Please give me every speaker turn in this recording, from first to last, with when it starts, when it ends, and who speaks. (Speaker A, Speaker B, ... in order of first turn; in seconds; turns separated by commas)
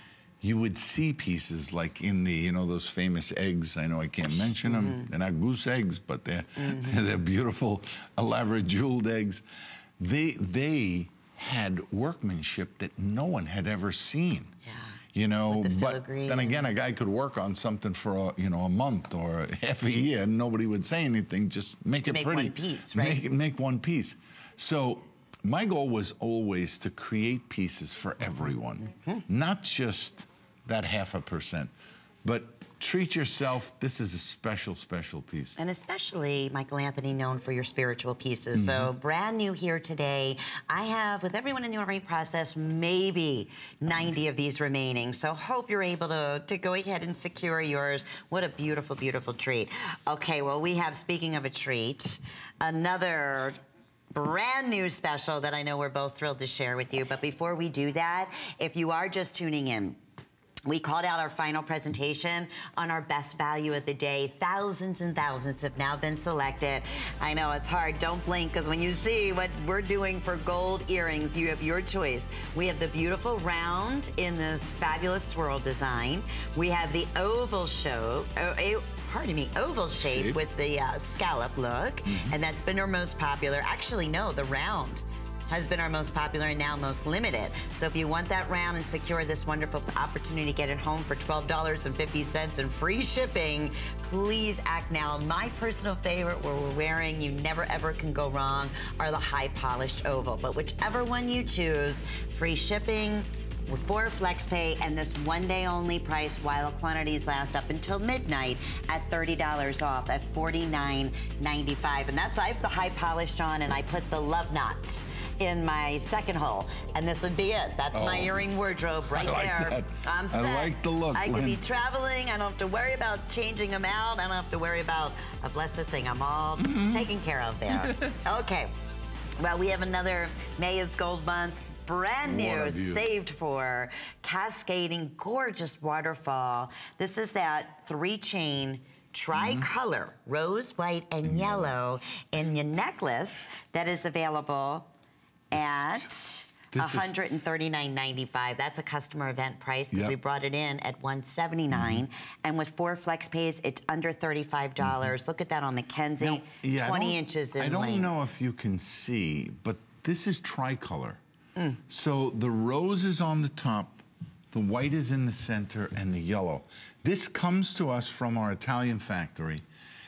Speaker A: 0.4-9.4, Speaker B: 4.7-5.1, Speaker B: 6.6-7.0, Speaker A: 10.0-14.5, Speaker B: 14.7-15.0, Speaker A: 15.1-31.7, Speaker B: 15.5-16.7, Speaker B: 22.1-23.2, Speaker B: 28.9-29.2, Speaker A: 32.2-35.6, Speaker B: 35.6-53.6, Speaker A: 38.5-38.9, Speaker B: 54.1-60.0, Speaker B: 60.7-128.7, Speaker A: 80.1-80.4, Speaker A: 82.1-82.3, Speaker A: 117.9-118.4, Speaker A: 119.1-121.6, Speaker A: 126.6-127.1, Speaker A: 127.7-128.2, Speaker B: 129.4-144.9, Speaker A: 132.2-133.1, Speaker A: 139.3-139.7, Speaker A: 141.2-141.8, Speaker B: 145.5-158.1, Speaker A: 145.5-146.1, Speaker A: 146.7-147.1, Speaker A: 149.9-150.2, Speaker A: 151.7-152.0, Speaker A: 154.8-155.1, Speaker A: 156.2-161.2, Speaker A: 161.9-169.6